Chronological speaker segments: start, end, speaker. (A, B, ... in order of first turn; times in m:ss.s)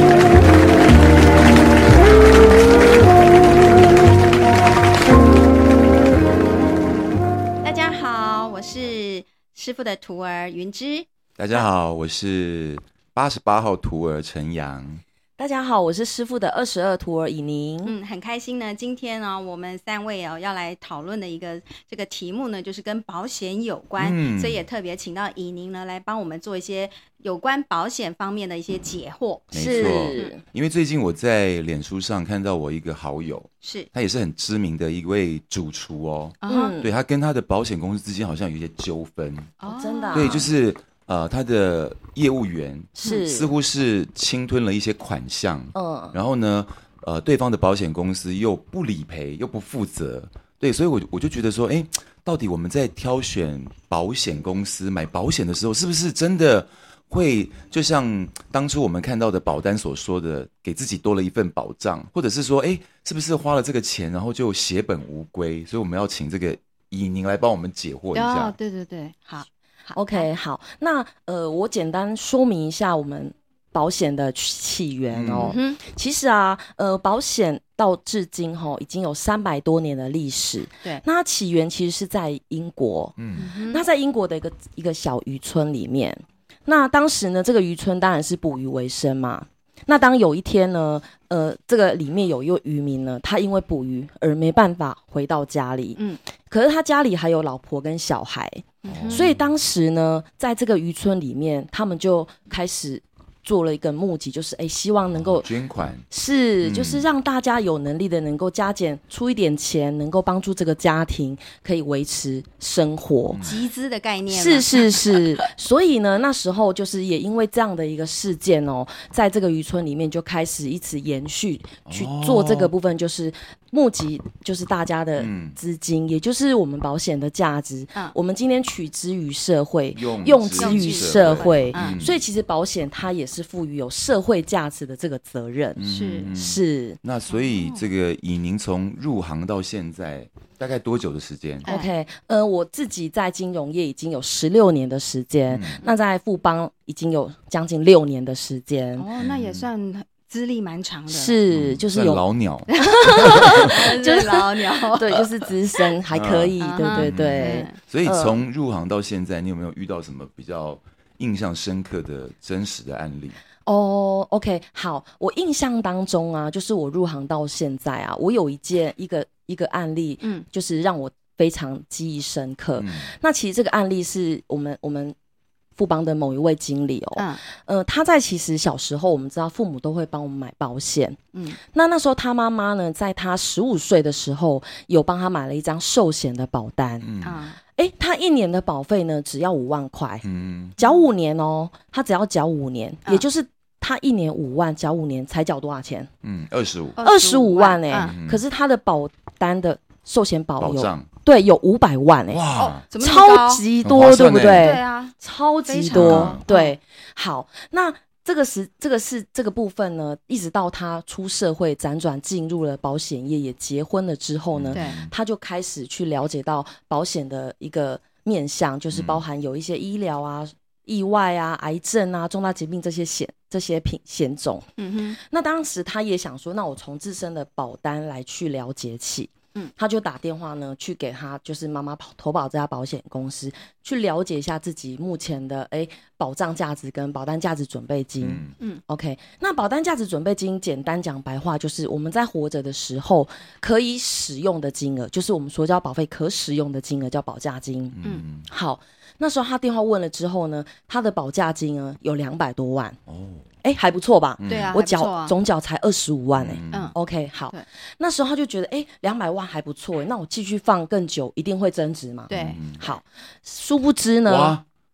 0:07.6-0:11.1 A
0:11.4-0:15.0 B
0:15.4-0:17.9 C
0:17.8-0:30.3 A
0:24.0-0:24.6 B
0:29.5-0:30.4 C
0:29.5-0:39.5 B
0:33.6-0:33.9 A
0:36.4-0:36.8 A
0:36.5-0:36.9 C
0:39.6-0:40.5 A
0:39.6-0:40.5 C
0:40.1-1:08.6 B
0:43.0-0:43.5 C
0:45.7-0:46.2 C
1:08.1-1:10.3 A
1:09.9-1:45.5 C
1:15.1-1:15.6 B
1:15.4-1:15.8 A
1:23.2-1:23.4 B
1:23.4-1:23.8 A
1:38.8-1:39.2 A
1:38.8-1:39.4 B
1:45.2-1:46.0 B
1:46.1-1:53.4 C
1:46.6-1:47.0 B
1:53.3-1:53.6 B
1:53.4-1:55.2 A
1:54.3-2:17.0 C
2:01.8-2:02.7 B
2:05.2-2:05.6 B
2:09.9-2:12.2 B
2:10.6-2:12.0 A
2:15.8-2:21.7 B
2:15.9-2:16.3 A
2:17.3-2:17.8 A
2:21.6-2:21.9 A
2:21.6-2:29.1 C
2:25.5-2:25.8 B
2:29.0-2:31.4 A
2:29.2-2:29.7 B
2:31.1-2:32.2 C
2:31.5-2:33.6 B
2:32.7-2:35.8 A
2:32.8-2:38.4 C
2:36.1-2:43.4 B
2:36.6-2:37.8 A
2:43.6-2:55.2 C
2:52.8-2:53.0 B
2:55.8-3:07.1 C
2:57.2-2:57.4 A
3:07.0-3:07.4 B
3:07.2-3:07.6 A
3:07.8-3:16.1 C
3:10.2-3:10.8 B
3:16.2-3:17.0 B
3:17.0-3:18.1 A
3:17.0-4:13.0 C
3:18.0-3:18.4 B
3:20.6-3:21.1 B
3:22.3-3:22.8 B
3:22.5-3:23.6 A
3:23.8-3:24.8 B
3:24.5-3:26.7 A
3:25.9-3:26.4 B
3:34.5-3:35.1 B
3:34.7-3:35.0 A
3:38.9-3:39.2 B
3:44.8-3:45.2 A
3:58.2-3:58.5 B
4:07.9-4:08.4 B
4:13.1-4:13.4 B
4:13.6-4:24.6 C
4:14.4-4:14.8 B
4:14.4-4:15.3 A
4:16.4-4:16.9 B
4:22.3-4:22.6 A
4:22.3-4:22.8 B
4:24.2-4:24.6 B